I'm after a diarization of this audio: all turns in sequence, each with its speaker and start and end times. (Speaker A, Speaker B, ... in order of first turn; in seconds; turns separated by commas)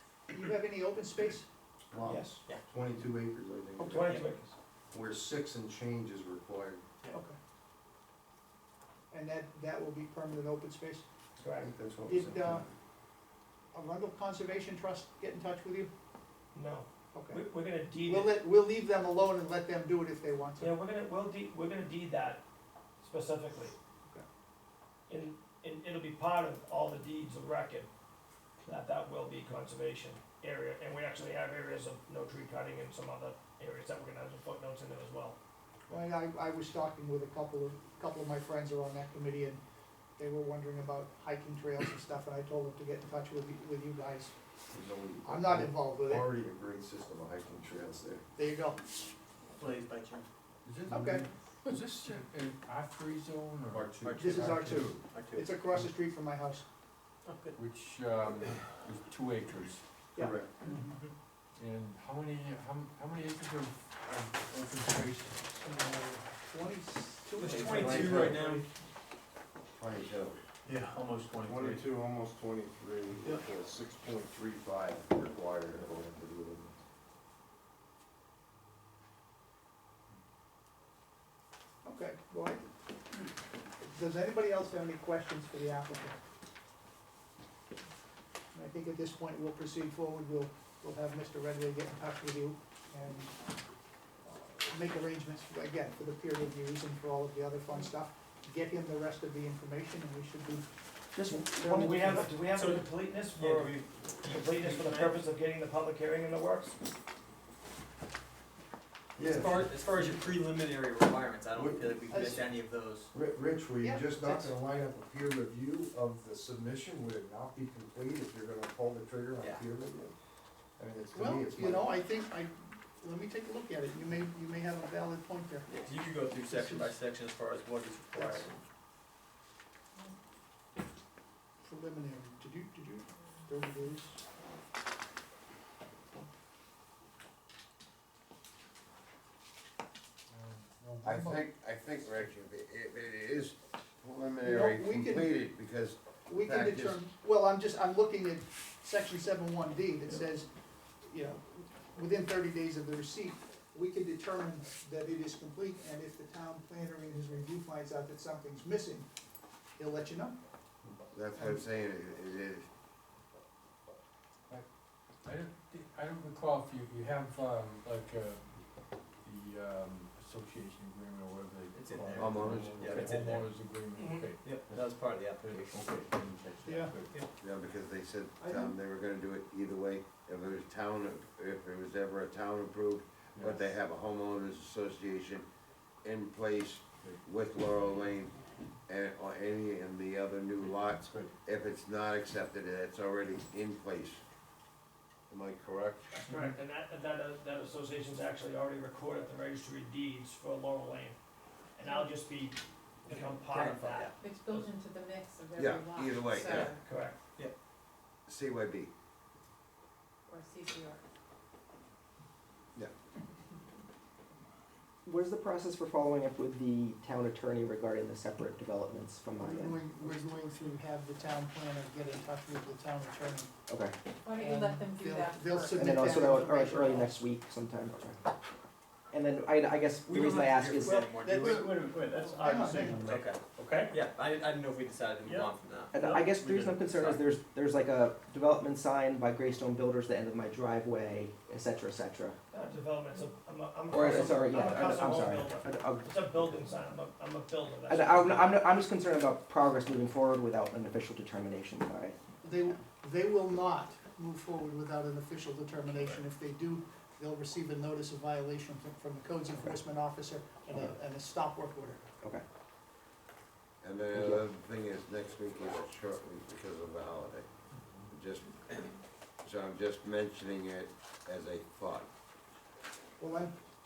Speaker A: 0.3-1.5, Speaker B: 1.8-4.1, Speaker C: 2.0-2.4, Speaker C: 3.8-4.5, Speaker B: 4.9-6.8, Speaker A: 7.1-7.4, Speaker A: 9.1-11.1, Speaker C: 11.4-11.7, Speaker B: 11.6-12.7, Speaker A: 12.1-12.7, Speaker A: 13.7-15.9, Speaker C: 16.5-18.4, Speaker A: 17.1-17.4, Speaker A: 18.1-20.7, Speaker C: 20.6-22.4, Speaker C: 23.0-23.8, Speaker C: 25.1-27.9, Speaker C: 28.6-35.4, Speaker A: 35.9-39.6, Speaker A: 40.2-44.3, Speaker B: 44.7-48.2, Speaker A: 45.2-46.3, Speaker A: 48.4-48.8, Speaker D: 49.6-50.3, Speaker E: 50.6-54.8, Speaker A: 50.9-51.3, Speaker B: 53.8-55.0, Speaker D: 54.0-55.5, Speaker A: 54.2-56.6, Speaker D: 57.2-57.6, Speaker E: 57.5-59.8, Speaker A: 60.1-61.0, Speaker B: 60.2-60.5, Speaker D: 60.7-61.1, Speaker E: 61.6-65.6, Speaker A: 65.7-68.5, Speaker D: 67.4-68.7, Speaker B: 67.7-68.4, Speaker B: 69.8-70.4, Speaker D: 70.7-71.8, Speaker B: 71.4-76.8, Speaker A: 81.8-82.7, Speaker A: 83.8-86.2, Speaker A: 88.5-93.3, Speaker A: 94.2-100.7, Speaker F: 101.1-102.2, Speaker C: 101.6-106.8, Speaker A: 101.6-102.2, Speaker D: 102.5-105.2, Speaker D: 109.2-113.1, Speaker B: 109.2-109.7, Speaker B: 111.5-112.0, Speaker A: 112.1-112.5, Speaker B: 113.1-120.2, Speaker A: 113.8-114.5, Speaker B: 120.8-121.9, Speaker A: 121.1-125.7, Speaker D: 125.7-128.6, Speaker A: 126.5-126.9, Speaker A: 128.1-128.5, Speaker A: 131.6-134.2, Speaker E: 140.3-141.4, Speaker G: 141.0-147.0, Speaker A: 144.4-145.3, Speaker A: 146.3-150.5, Speaker A: 151.0-159.1, Speaker A: 159.8-160.4, Speaker G: 160.8-162.7, Speaker A: 161.3-161.6, Speaker E: 165.2-174.9, Speaker D: 171.7-172.2, Speaker G: 172.1-173.1, Speaker D: 172.8-173.6, Speaker C: 174.0-174.3, Speaker D: 174.3-176.0, Speaker E: 175.5-177.2, Speaker A: 176.7-176.9, Speaker G: 177.4-185.5, Speaker E: 183.3-183.7, Speaker G: 186.0-188.3, Speaker G: 188.9-194.2, Speaker G: 195.3-196.2, Speaker C: 196.3-201.2, Speaker C: 201.8-204.7, Speaker D: 203.1-204.1, Speaker H: 204.1-206.8, Speaker G: 205.6-206.7, Speaker C: 206.6-207.2, Speaker G: 208.3-208.9, Speaker H: 210.3-211.0, Speaker F: 215.1-220.2, Speaker A: 219.4-223.5, Speaker F: 223.7-224.0, Speaker H: 224.2-225.8, Speaker A: 224.3-227.2, Speaker F: 225.8-228.3, Speaker F: 229.1-230.9, Speaker D: 230.1-237.2, Speaker A: 230.8-231.8, Speaker C: 230.9-233.9, Speaker A: 232.4-233.1, Speaker F: 235.9-242.4, Speaker C: 242.5-248.6, Speaker F: 243.9-246.1, Speaker F: 247.9-252.2, Speaker A: 252.4-262.0, Speaker G: 263.8-267.5, Speaker F: 264.1-264.5, Speaker G: 268.1-268.9, Speaker G: 269.4-272.1, Speaker A: 273.2-273.5